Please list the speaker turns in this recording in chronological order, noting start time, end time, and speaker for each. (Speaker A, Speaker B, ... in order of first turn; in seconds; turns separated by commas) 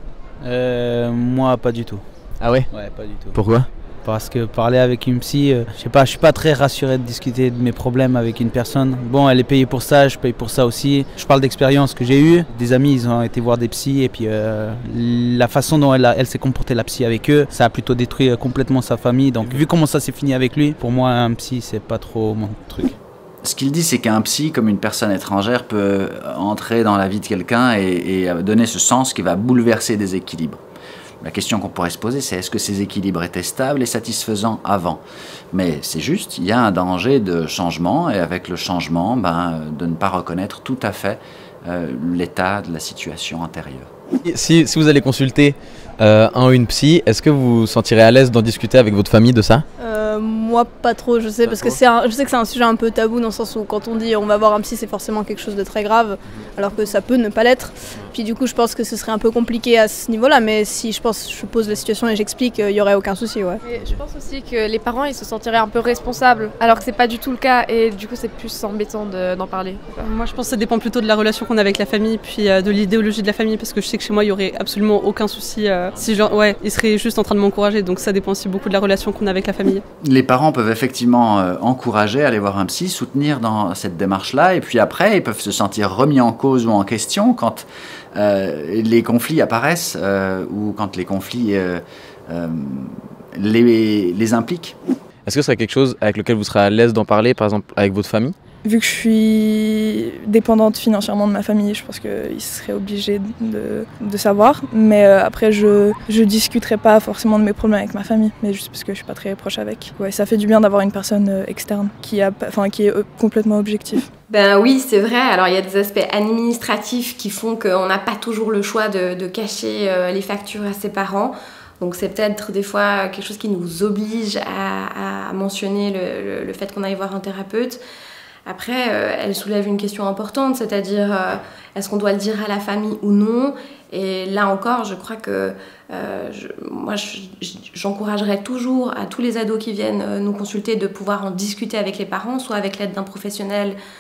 Speaker A: 0.4-2.0, Speaker B: 2.4-2.7, Speaker A: 2.7-3.4, Speaker B: 3.3-3.7, Speaker A: 4.0-23.0, Speaker C: 23.4-30.6, Speaker C: 31.2-35.0, Speaker C: 35.5-43.9, Speaker B: 44.3-49.7, Speaker D: 49.8-63.6, Speaker B: 51.5-51.8, Speaker E: 63.7-70.1, Speaker F: 70.0-79.8, Speaker C: 80.0-94.8, Speaker B: 95.2-98.3, Speaker G: 98.6-114.1, Speaker H: 114.3-127.8, Speaker H: 128.5-143.8